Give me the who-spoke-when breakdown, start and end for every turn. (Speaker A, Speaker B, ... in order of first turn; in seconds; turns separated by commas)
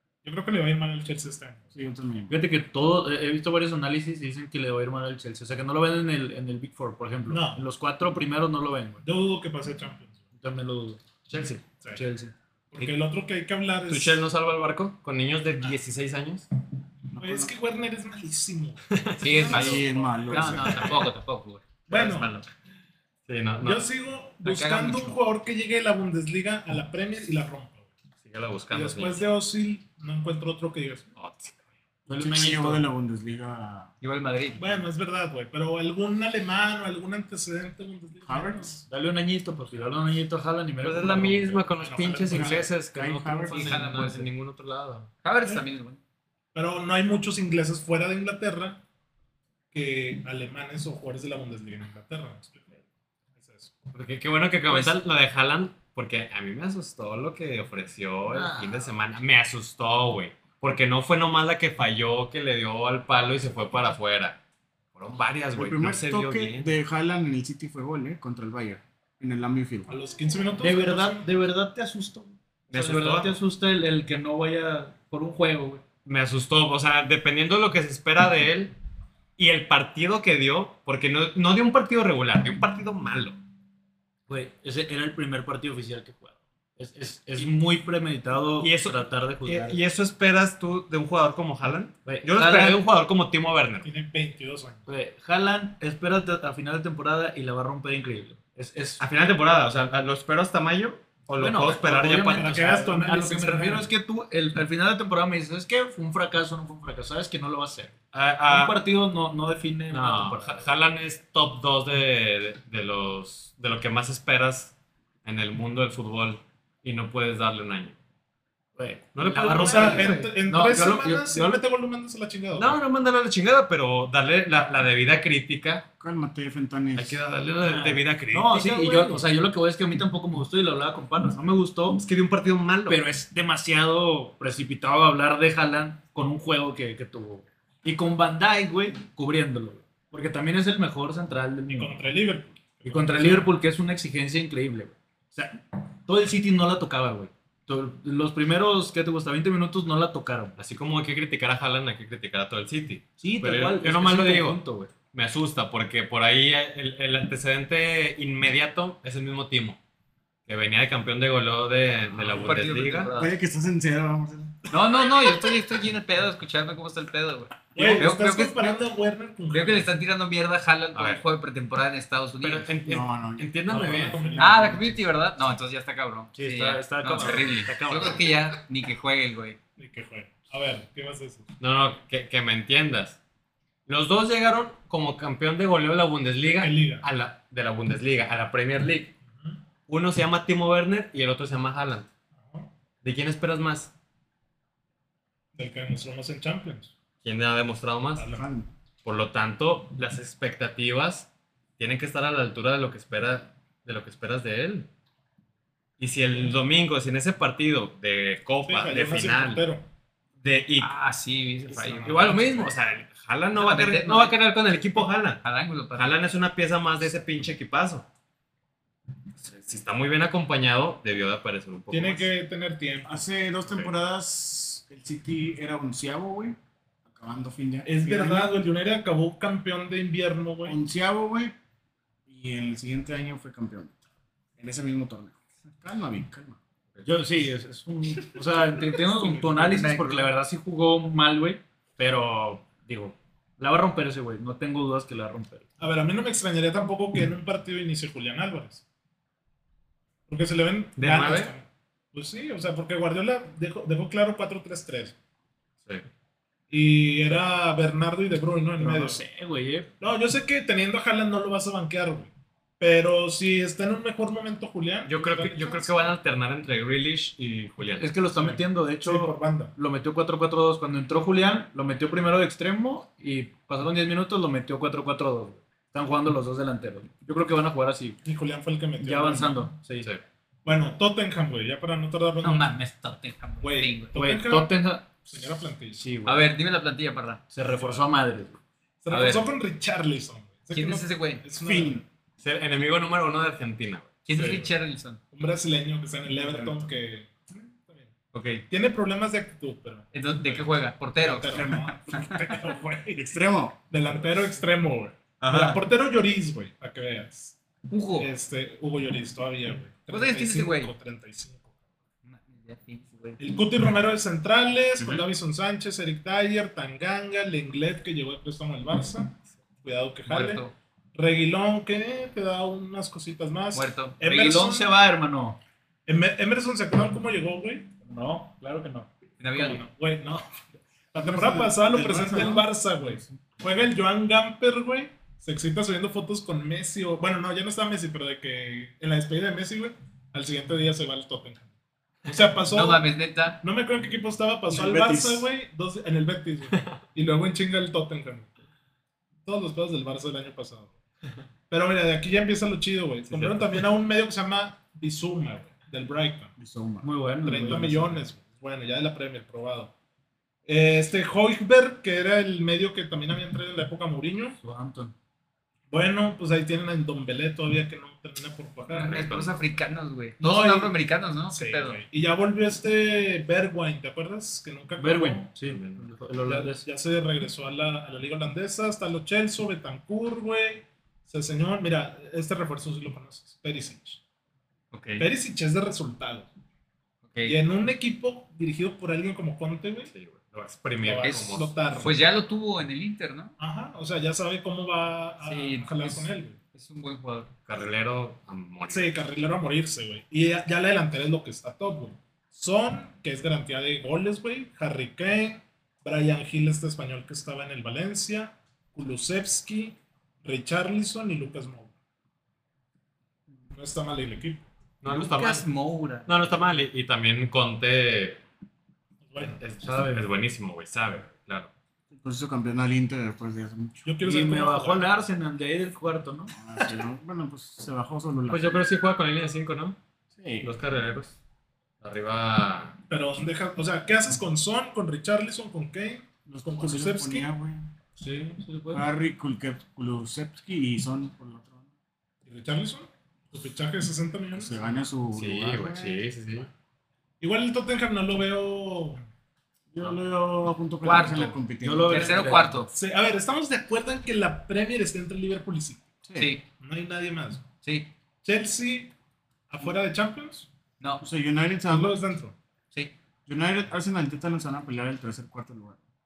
Speaker A: 0.2-1.7, Speaker B: 1.7-2.4, Speaker C: 2.3-9.0, Speaker A: 7.3-7.6, Speaker A: 9.0-10.2, Speaker C: 10.4-12.9, Speaker A: 12.7-14.2, Speaker D: 13.9-16.5, Speaker B: 17.1-17.5, Speaker A: 17.1-20.9, Speaker D: 18.9-19.8, Speaker E: 19.2-21.8, Speaker B: 19.5-20.9, Speaker A: 21.9-22.4, Speaker D: 21.9-22.5, Speaker D: 23.3-23.9, Speaker A: 23.6-27.9, Speaker E: 24.4-25.2, Speaker D: 28.2-29.2, Speaker A: 28.7-31.1, Speaker D: 31.1-31.6, Speaker C: 32.1-32.9, Speaker B: 32.1-33.9, Speaker E: 34.0-34.8, Speaker A: 34.5-38.8, Speaker B: 38.2-38.8, Speaker C: 38.9-41.6, Speaker D: 40.8-45.1, Speaker A: 41.8-42.8, Speaker B: 42.3-43.9, Speaker E: 43.5-44.3, Speaker E: 45.2-46.0, Speaker A: 46.5-48.8, Speaker A: 49.7-52.8, Speaker A: 53.4-53.9, Speaker D: 53.9-64.4, Speaker E: 54.7-54.9, Speaker C: 58.3-58.9, Speaker D: 64.9-66.7, Speaker B: 65.5-69.9, Speaker A: 69.9-71.3, Speaker C: 70.6-75.8, Speaker D: 72.7-73.4, Speaker D: 76.0-78.7, Speaker D: 79.4-83.4, Speaker C: 84.3-89.8, Speaker D: 88.6-93.9, Speaker C: 92.1-92.8, Speaker A: 93.8-94.9, Speaker C: 94.9-99.0, Speaker D: 99.0-102.6, Speaker C: 101.4-107.9, Speaker A: 102.2-103.9, Speaker D: 108.1-108.8, Speaker C: 108.5-110.7, Speaker D: 109.9-118.0, Speaker C: 118.8-121.6, Speaker D: 119.1-120.2, Speaker A: 119.6-122.8, Speaker D: 122.5-125.9, Speaker B: 126.0-127.2, Speaker D: 127.0-128.9, Speaker C: 127.6-132.0, Speaker A: 128.7-129.2, Speaker D: 131.9-133.0, Speaker C: 132.9-142.0, Speaker A: 141.8-143.6, Speaker C: 142.8-150.6, Speaker D: 150.6-159.8, Speaker C: 153.2-154.9, Speaker D: 160.5-163.1, Speaker E: 162.1-163.3, Speaker B: 163.1-165.5, Speaker E: 164.7-168.8, Speaker A: 167.8-169.9, Speaker E: 169.5-172.7, Speaker D: 170.9-171.2, Speaker D: 172.4-174.2, Speaker B: 172.8-175.0, Speaker C: 173.7-174.5, Speaker A: 173.8-174.8, Speaker E: 174.4-179.6, Speaker C: 176.3-178.3, Speaker A: 179.8-181.4, Speaker D: 181.6-183.2, Speaker D: 183.9-189.1, Speaker A: 186.4-187.1, Speaker A: 189.3-189.6, Speaker D: 189.9-192.1, Speaker A: 192.4-192.7, Speaker D: 193.0-193.9, Speaker A: 195.6-196.9, Speaker D: 197.2-198.3, Speaker A: 198.2-198.4, Speaker B: 198.3-198.7, Speaker D: 199.0-204.9, Speaker D: 206.0-209.6, Speaker A: 208.6-209.9, Speaker D: 210.4-210.9, Speaker E: 210.8-212.4, Speaker A: 211.7-212.7, Speaker D: 212.0-215.4, Speaker E: 213.6-214.4, Speaker E: 215.4-216.2, Speaker D: 215.9-218.1, Speaker D: 219.4-222.3, Speaker A: 221.9-223.2, Speaker B: 223.1-228.6, Speaker D: 223.7-223.9, Speaker A: 227.8-230.8, Speaker B: 230.6-231.6, Speaker B: 232.3-233.9, Speaker B: 234.6-236.6, Speaker C: 237.0-245.6, Speaker B: 239.2-240.1, Speaker A: 239.3-240.1, Speaker A: 245.8-248.8, Speaker A: 250.3-255.1, Speaker D: 251.0-251.5, Speaker A: 256.7-259.2, Speaker C: 258.8-259.9, Speaker A: 260.0-265.9, Speaker D: 265.1-268.2, Speaker C: 268.0-278.2, Speaker A: 268.4-269.7, Speaker A: 278.2-279.7, Speaker C: 279.0-280.1, Speaker A: 280.6-282.7, Speaker E: 282.4-284.1, Speaker A: 283.6-286.1, Speaker C: 284.1-285.3, Speaker C: 286.0-286.5, Speaker E: 286.2-287.5, Speaker C: 287.5-288.6, Speaker A: 287.6-288.1, Speaker A: 289.0-292.0, Speaker E: 289.1-289.5, Speaker E: 290.7-291.4, Speaker B: 291.6-292.0, Speaker D: 292.4-294.1, Speaker E: 294.2-295.2, Speaker A: 294.3-294.7, Speaker A: 295.3-298.1, Speaker B: 296.5-296.8, Speaker E: 298.3-298.6, Speaker A: 298.7-303.3, Speaker E: 300.1-301.7, Speaker B: 301.6-301.9, Speaker B: 303.1-303.8, Speaker A: 303.9-307.6, Speaker E: 305.4-305.8, Speaker E: 307.9-308.3, Speaker A: 308.1-311.6, Speaker E: 310.0-310.9, Speaker E: 312.2-313.4, Speaker A: 313.4-325.0, Speaker E: 320.3-320.8, Speaker E: 323.7-324.2, Speaker C: 324.2-325.6, Speaker A: 326.1-327.9, Speaker C: 328.0-329.1, Speaker E: 329.4-329.8, Speaker A: 329.6-330.4, Speaker A: 331.1-341.7, Speaker B: 331.2-332.7, Speaker A: 342.3-343.1, Speaker E: 342.6-343.6, Speaker A: 343.6-348.5, Speaker B: 344.7-345.4, Speaker A: 349.4-350.9, Speaker A: 351.7-356.5, Speaker D: 353.3-353.8, Speaker B: 356.6-358.1, Speaker C: 357.0-358.2, Speaker A: 357.4-359.9, Speaker A: 360.6-364.6, Speaker C: 364.6-365.1, Speaker A: 365.9-369.1, Speaker E: 368.9-372.0, Speaker D: 369.0-369.6, Speaker A: 370.4-370.9, Speaker A: 371.5-375.5, Speaker C: 375.0-376.9, Speaker D: 375.6-376.1, Speaker A: 376.4-384.2, Speaker D: 384.9-385.3, Speaker A: 385.2-386.5, Speaker E: 387.3-387.6, Speaker A: 387.4-390.1, Speaker D: 390.1-391.7, Speaker A: 391.0-392.2, Speaker E: 391.2-393.6, Speaker A: 393.6-396.6, Speaker E: 395.4-397.5, Speaker D: 397.7-399.1, Speaker A: 398.9-411.9, Speaker A: 413.7-414.7, Speaker D: 415.0-415.6, Speaker E: 415.1-416.3, Speaker D: 416.3-418.4, Speaker A: 419.2-419.6, Speaker D: 419.4-421.7, Speaker C: 419.8-420.3, Speaker B: 422.1-424.0, Speaker A: 424.0-425.1, Speaker C: 424.2-426.5, Speaker B: 426.6-428.9, Speaker D: 428.5-430.0, Speaker B: 430.4-430.7, Speaker D: 430.6-431.4, Speaker D: 432.0-433.0, Speaker A: 433.1-437.5, Speaker B: 436.4-437.9, Speaker C: 438.2-439.1, Speaker B: 438.9-441.9, Speaker A: 442.4-445.0, Speaker B: 444.6-446.2, Speaker D: 445.4-446.7, Speaker A: 447.4-449.2, Speaker B: 449.9-452.6, Speaker E: 451.0-452.9, Speaker C: 451.8-452.9, Speaker A: 452.9-456.1, Speaker B: 456.3-456.5, Speaker E: 456.4-456.6, Speaker A: 456.8-457.6, Speaker E: 457.8-458.1, Speaker A: 458.4-459.1, Speaker A: 459.7-460.7, Speaker B: 461.2-462.2, Speaker A: 461.9-462.6, Speaker B: 463.4-466.0